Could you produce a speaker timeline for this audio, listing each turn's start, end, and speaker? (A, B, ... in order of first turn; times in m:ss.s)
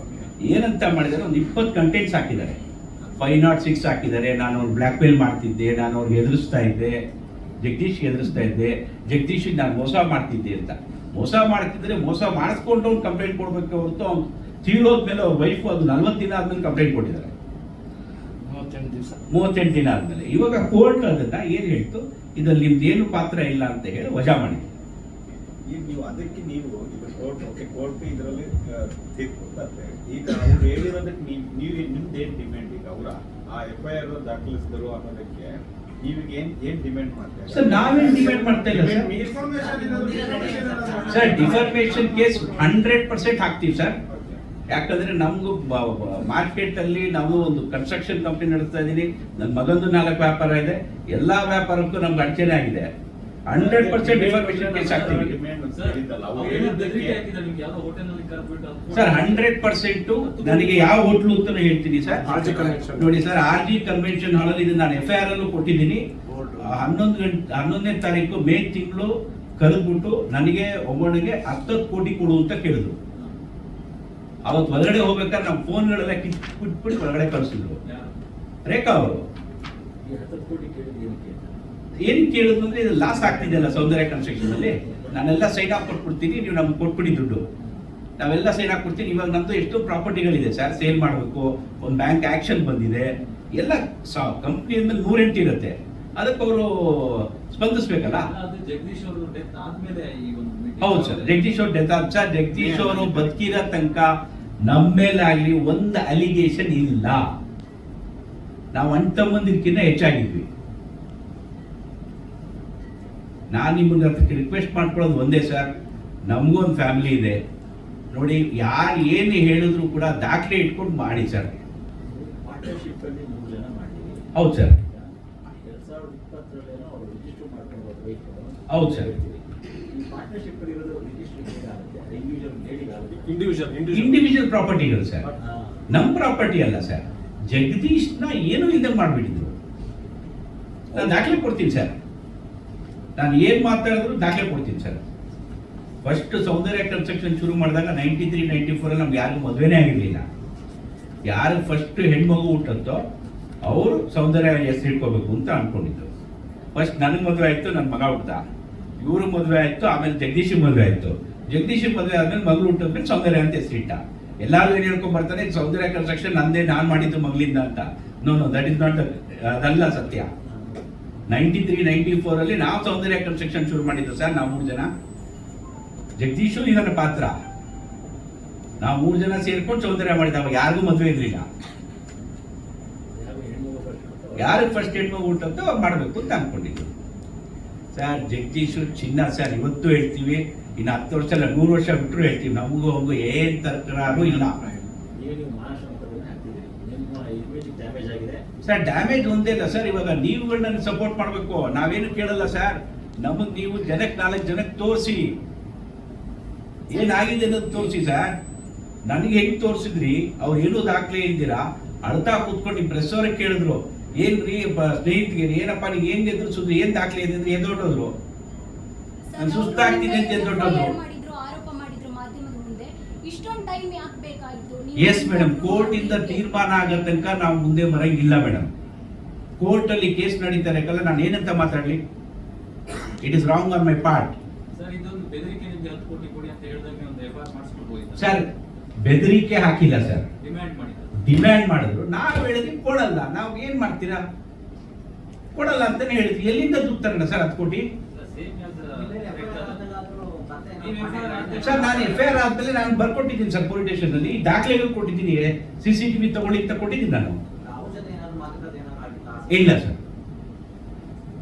0:00.4-0:02.6 A
0:03.2-0:07.0 A
0:07.6-0:17.3 A
0:18.5-0:19.2 B
0:19.3-0:24.6 A
0:25.7-0:41.6 C
0:37.5-0:39.1 A
0:38.7-0:42.8 B
0:39.4-0:42.0 D
0:41.0-0:44.0 A
0:44.0-0:44.4 C
0:44.7-0:52.9 A
0:53.5-0:55.3 A
0:53.5-0:57.2 C
0:54.6-0:59.6 E
0:58.9-1:06.0 A
1:00.2-1:01.0 E
1:02.1-1:03.2 B
1:06.3-1:06.8 B
1:06.6-1:12.9 A
1:14.4-1:17.8 A
1:17.8-1:18.2 E
1:18.7-1:19.2 A
1:20.0-1:21.6 D
1:22.0-1:27.4 A
1:23.0-1:25.1 D
1:28.2-1:38.3 A
1:38.0-1:41.4 E
1:40.8-1:44.1 A
1:44.7-1:47.2 A
1:48.7-1:50.4 A
1:53.5-1:55.7 A
1:56.3-1:57.4 A
1:58.1-2:01.6 A
2:02.0-2:13.7 D
2:04.4-2:04.8 A
2:08.7-2:09.1 A
2:13.3-2:14.2 B
2:13.9-2:15.3 A
2:15.4-2:15.8 D
2:15.9-2:19.5 A
2:20.9-2:22.0 A
2:23.2-2:25.0 A
2:26.0-2:30.2 A
2:31.3-2:33.0 A
2:33.6-2:36.1 A
2:36.7-2:38.4 A
2:39.0-2:50.3 A
2:50.4-2:50.8 D
2:51.3-2:54.9 A
2:56.2-2:57.3 A
2:58.8-3:01.5 A
3:03.1-3:04.8 D
3:04.4-3:06.9 A
3:07.9-3:14.6 A
3:14.0-3:14.9 B
3:15.1-3:18.4 D
3:18.6-3:25.3 A
3:26.9-3:28.3 A
3:27.2-3:27.5 F
3:29.1-3:38.1 A
3:39.3-3:47.0 F
3:39.4-3:41.0 A
3:45.0-3:48.7 A
3:49.6-3:52.0 A
3:53.2-3:54.3 A
3:54.7-3:58.4 E
3:58.2-3:58.5 A
3:59.0-4:00.3 A
4:00.4-4:01.2 E
4:01.2-4:04.2 A
4:05.5-4:07.8 A
4:08.1-4:09.9 E
4:08.9-4:12.4 D
4:10.8-4:12.4 E
4:11.6-4:17.4 A
4:17.6-4:19.8 D
4:19.5-4:20.0 A